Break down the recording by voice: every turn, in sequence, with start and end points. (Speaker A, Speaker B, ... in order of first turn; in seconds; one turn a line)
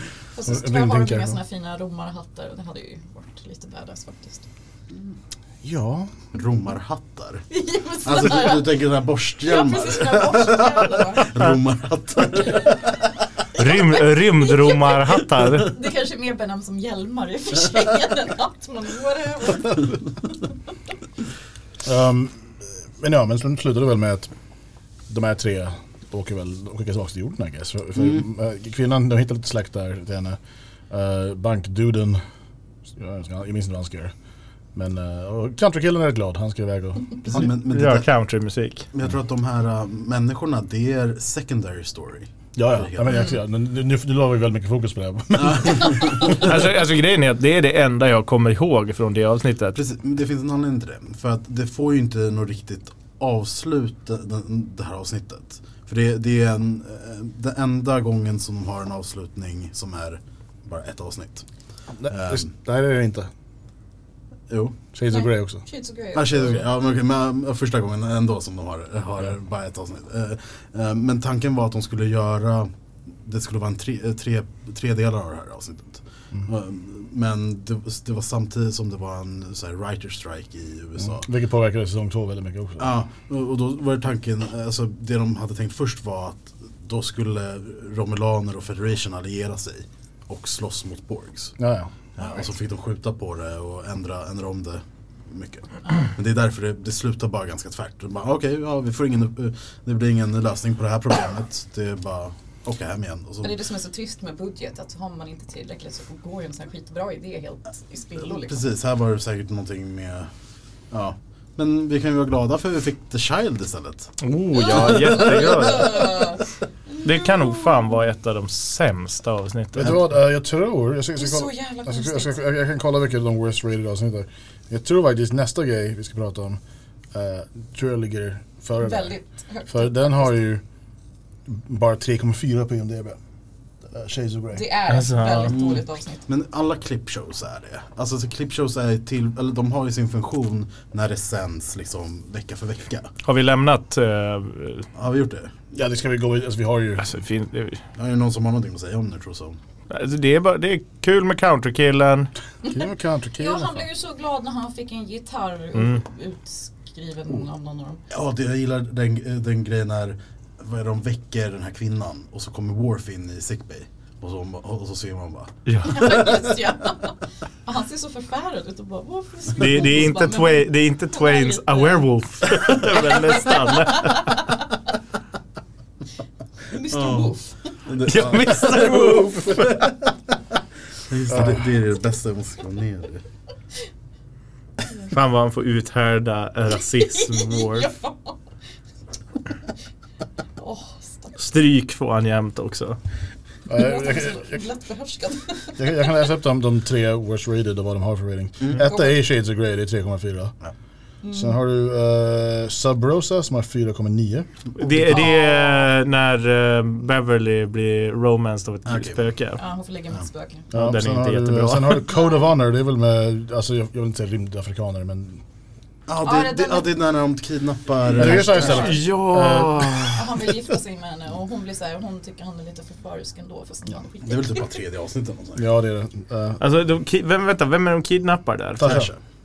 Speaker A: 0.3-4.5
Speaker B: 0.5-1.4
Speaker B: 5.6-6.1
Speaker C: 6.3-7.5
Speaker A: 7.5-8.8
Speaker C: 8.1-13.0
Speaker A: 9.4-11.4
Speaker D: 13.6-15.7
Speaker A: 13.6-20.0
Speaker B: 21.8-22.4
Speaker B: 23.0-24.3
Speaker B: 25.1-30.4
Speaker B: 30.9-32.2
Speaker B: 33.0-34.1
Speaker B: 34.8-37.5
Speaker C: 37.2-38.1
Speaker D: 37.3-38.9
Speaker C: 38.9-43.2
Speaker B: 42.5-46.3
Speaker C: 45.4-46.5
Speaker D: 46.1-49.8
Speaker C: 49.8-61.5
Speaker B: 62.0-63.3
Speaker C: 62.1-62.5
Speaker C: 64.5-64.8
Speaker B: 64.9-65.6
Speaker A: 65.1-66.7
Speaker C: 66.1-72.7
Speaker C: 73.2-81.3
Speaker B: 81.2-83.0
Speaker C: 82.8-91.6
Speaker B: 91.6-91.9
Speaker C: 92.2-103.5
Speaker A: 103.4-108.6
Speaker C: 108.2-110.3
Speaker C: 110.9-114.1
Speaker D: 114.2-116.3
Speaker C: 114.7-116.2
Speaker A: 114.9-116.4
Speaker A: 116.9-117.6
Speaker D: 117.0-120.0
Speaker B: 119.8-126.6
Speaker A: 121.2-122.4
Speaker B: 127.1-129.2
Speaker A: 128.8-130.3
Speaker B: 129.7-130.6
Speaker B: 131.5-133.2
Speaker B: 133.9-134.7
Speaker A: 134.5-136.3
Speaker D: 134.9-135.6
Speaker C: 135.5-143.1
Speaker D: 143.2-144.9
Speaker C: 144.9-145.5
Speaker B: 145.7-147.1
Speaker D: 147.0-147.8
Speaker C: 148.0-149.6
Speaker D: 149.9-152.3
Speaker B: 152.7-153.8
Speaker A: 153.4-158.0
Speaker C: 158.1-166.3
Speaker D: 165.7-166.3
Speaker A: 165.8-174.6
Speaker D: 169.6-174.4
Speaker A: 176.7-177.9
Speaker C: 176.9-180.1
Speaker D: 178.0-179.9
Speaker C: 181.1-183.2
Speaker B: 181.3-181.6
Speaker D: 185.1-187.9
Speaker A: 186.9-188.4
Speaker A: 190.6-191.4
Speaker D: 191.4-193.0
Speaker B: 193.7-194.5
Speaker A: 193.7-196.0
Speaker B: 195.8-200.5
Speaker A: 198.8-199.2
Speaker A: 201.2-201.6
Speaker B: 201.3-204.5
Speaker D: 204.8-209.6
Speaker A: 205.1-205.9
Speaker C: 208.9-209.2
Speaker A: 209.6-210.7
Speaker D: 210.7-212.0
Speaker B: 210.7-215.4
Speaker A: 212.1-212.4
Speaker C: 216.1-218.9
Speaker A: 216.2-217.0
Speaker B: 218.1-220.1
Speaker A: 218.2-219.1
Speaker D: 218.7-220.3
Speaker A: 220.1-224.7
Speaker C: 224.2-225.7
Speaker B: 225.6-226.6
Speaker D: 226.6-229.1
Speaker B: 228.8-229.1
Speaker C: 228.8-229.2